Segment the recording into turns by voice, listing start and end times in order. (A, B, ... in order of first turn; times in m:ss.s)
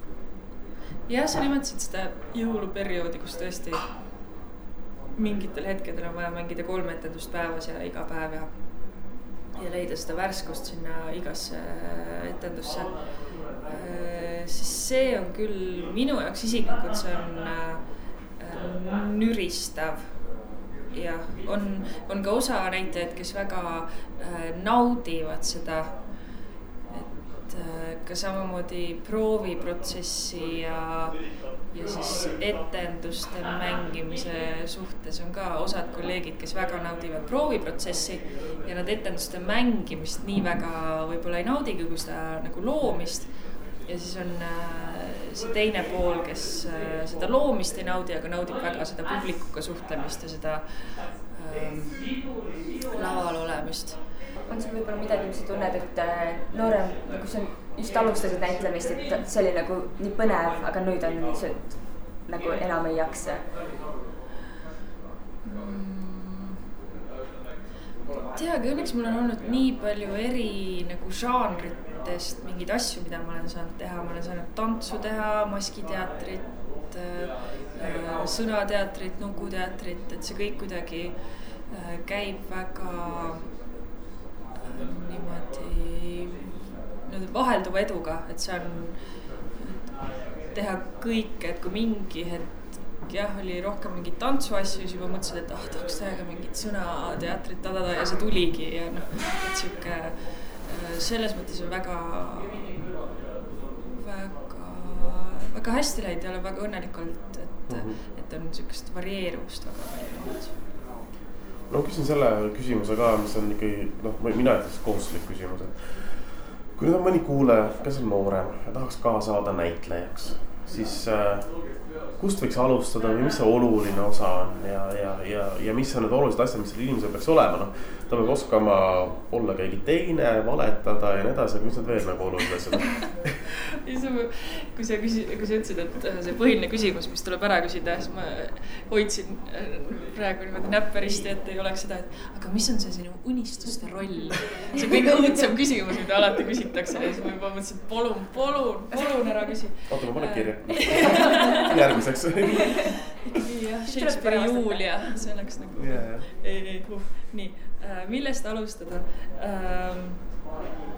0:01.1-0:03.8 A
0:05.2-0:08.6 A
0:09.5-0:13.0 A
0:13.6-0:17.8 A
0:18.4-0:20.1 A
0:20.9-0:26.0 A
0:26.9-0:54.0 A
0:54.5-1:03.4 B
1:05.4-1:06.6 A
1:08.3-1:23.5 A
1:24.6-1:29.0 A
1:29.6-1:29.9 A
1:30.5-1:42.8 A
1:44.0-1:50.6 A
1:47.7-1:48.0 C
1:51.7-2:01.6 C
2:02.2-2:13.4 C
2:13.8-2:31.7 A
2:28.9-2:29.4 B
2:29.9-2:32.9 C
2:30.8-2:31.7 B
2:32.8-2:40.3 A
2:33.9-2:35.2 B
2:35.8-2:36.3 C